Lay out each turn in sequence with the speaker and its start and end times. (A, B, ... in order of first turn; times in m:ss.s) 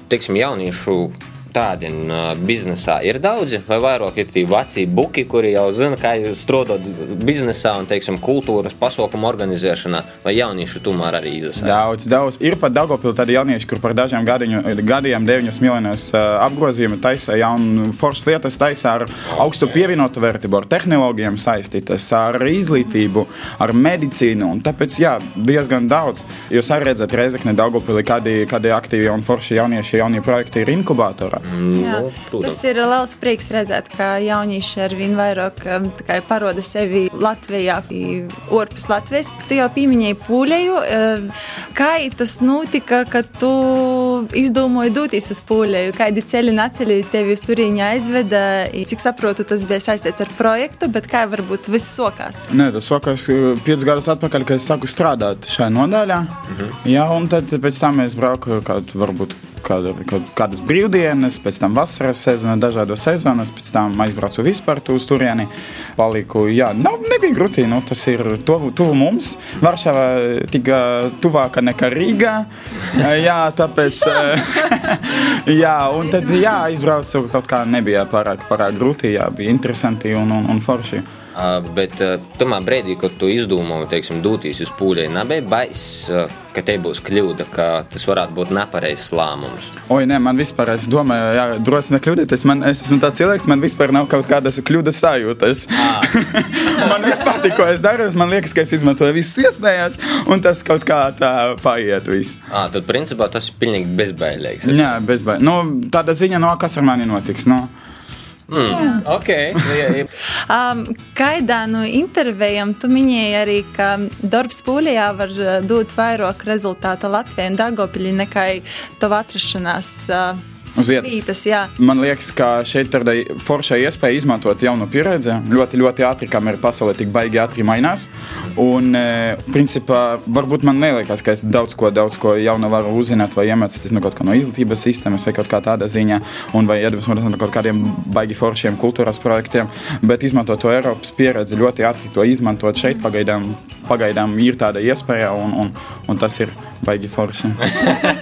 0:00.1-0:11.8 A
0:11.6-0:31.4 B
0:19.3-0:19.8 A
0:31.4-0:32.6 A
0:31.8-0:52.5 C
0:52.5-1:21.1 B
1:21.4-1:29.7 A
1:29.9-1:42.4 B
1:35.8-1:37.0 A
1:42.5-1:45.0 A
1:44.6-1:47.7 B
1:48.5-1:50.1 A
1:48.7-1:49.0 C
1:50.5-2:00.4 C
2:00.8-2:01.2 B
2:01.0-2:01.7 C
2:01.8-2:27.7 B